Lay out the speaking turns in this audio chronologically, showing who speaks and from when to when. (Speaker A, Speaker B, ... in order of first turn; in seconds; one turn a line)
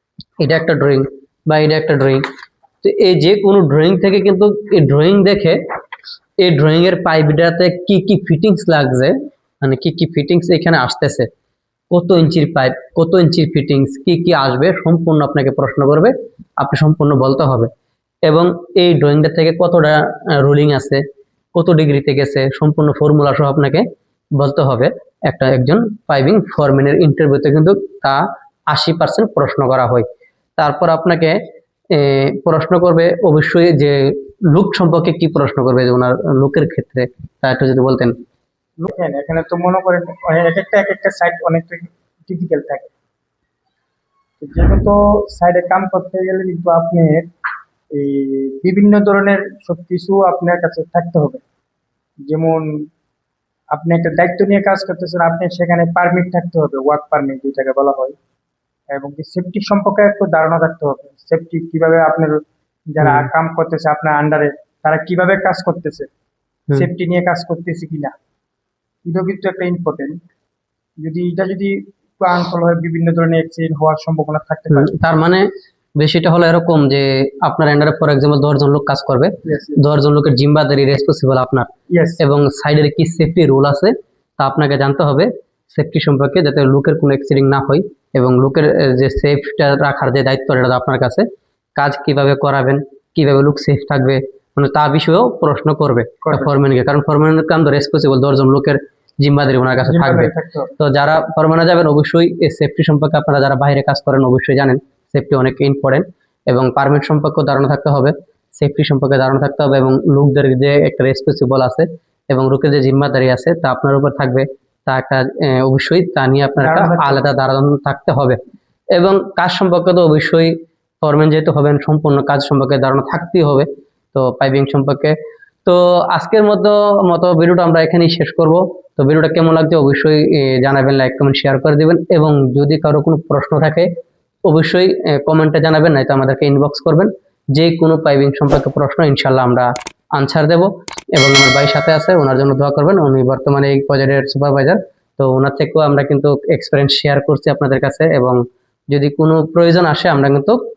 Speaker A: 0.4-2.2
Speaker A: 2.8-5.6
Speaker A: 6.4-11.3
Speaker A: 11.9-17.7
Speaker A: 18.2-21.0
Speaker A: 21.5-23.9
Speaker A: 24.4-30.1
Speaker A: 30.6-31.4
Speaker A: 31.9-38.1
Speaker B: 38.8-42.9
Speaker B: 44.4-47.3
Speaker B: 47.9-51.4
Speaker B: 52.2-52.8
Speaker B: 53.7-58.1
Speaker B: 58.9-66.1
Speaker A: 63.0-63.3
Speaker B: 66.7-68.1
Speaker B: 69.0-70.2
Speaker B: 71.0-74.9
Speaker A: 74.7-118.4
Speaker B: 79.4-79.8
Speaker B: 81.9-82.2
Speaker B: 96.2-96.5
Speaker B: 99.8-100.7
Speaker B: 116.6-117.2
Speaker A: 118.9-133.9
Speaker A: 134.4-150.6